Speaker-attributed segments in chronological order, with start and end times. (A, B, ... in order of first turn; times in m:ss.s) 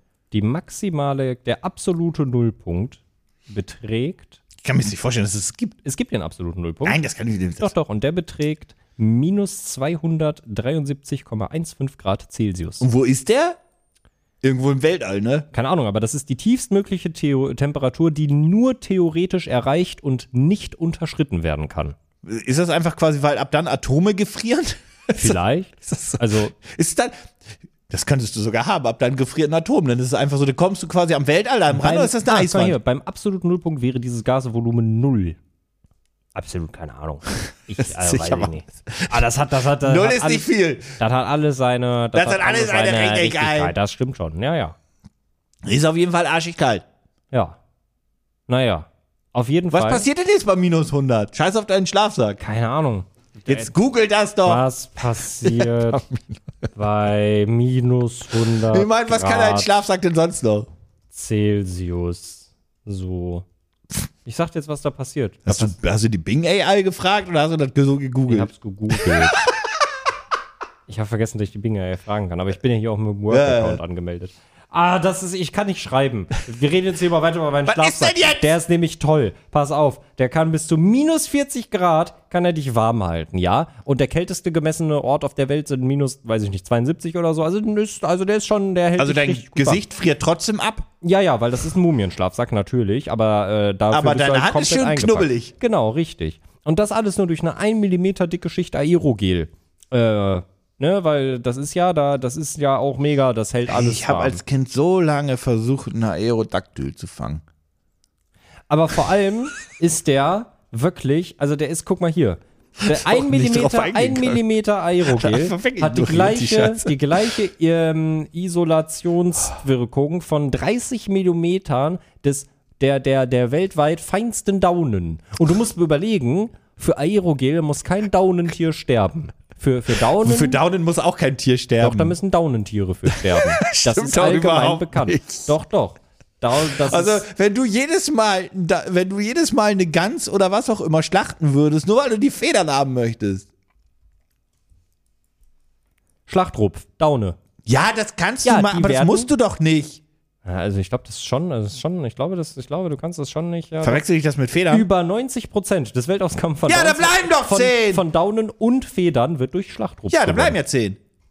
0:00.3-0:04.4 A
0:04.6-0:05.8 B
0:05.8-0:07.0 A
0:06.8-0:07.7 B
0:07.6-0:12.8 A
0:12.8-0:13.6 B
0:14.4-0:15.5 B
0:15.5-0:22.0 A
0:22.2-0:27.1 B
0:25.2-0:26.5 A
0:27.9-0:32.8 B
0:31.7-0:35.4 A
0:36.3-0:44.7 A
0:37.8-0:39.3 B
0:39.8-0:41.0 B
0:42.1-0:43.7 B
0:45.6-0:46.8 B
0:47.3-0:47.6 A
0:48.5-0:50.1 A
0:49.7-0:52.4 B
0:52.4-0:53.7 A
0:53.5-0:54.6 B
0:54.4-0:56.0 A
0:55.4-0:55.9 B
0:56.7-0:59.7 A
0:58.7-1:00.7 B
1:01.1-1:03.4 A
1:04.2-1:05.7 A
1:05.4-1:09.7 B
1:08.3-1:09.4 A
1:10.9-1:29.8 A
1:13.3-1:13.8 B
1:17.7-1:18.5 B
1:29.0-1:30.9 B
1:31.0-1:44.4 A
1:33.9-1:35.5 B
1:43.7-1:47.4 B
1:48.7-2:10.6 A
1:52.8-1:54.4 B
1:55.0-1:57.3 B
2:10.2-2:12.2 B
2:11.8-2:17.2 A
2:13.1-2:15.5 B
2:16.6-2:23.5 B
2:26.3-2:27.4 A
2:27.6-2:30.0 B
2:28.4-2:29.3 A
2:30.4-2:34.0 A
2:33.8-2:34.9 B
2:34.7-2:40.6 A
2:36.7-2:38.0 B
2:40.1-2:41.0 B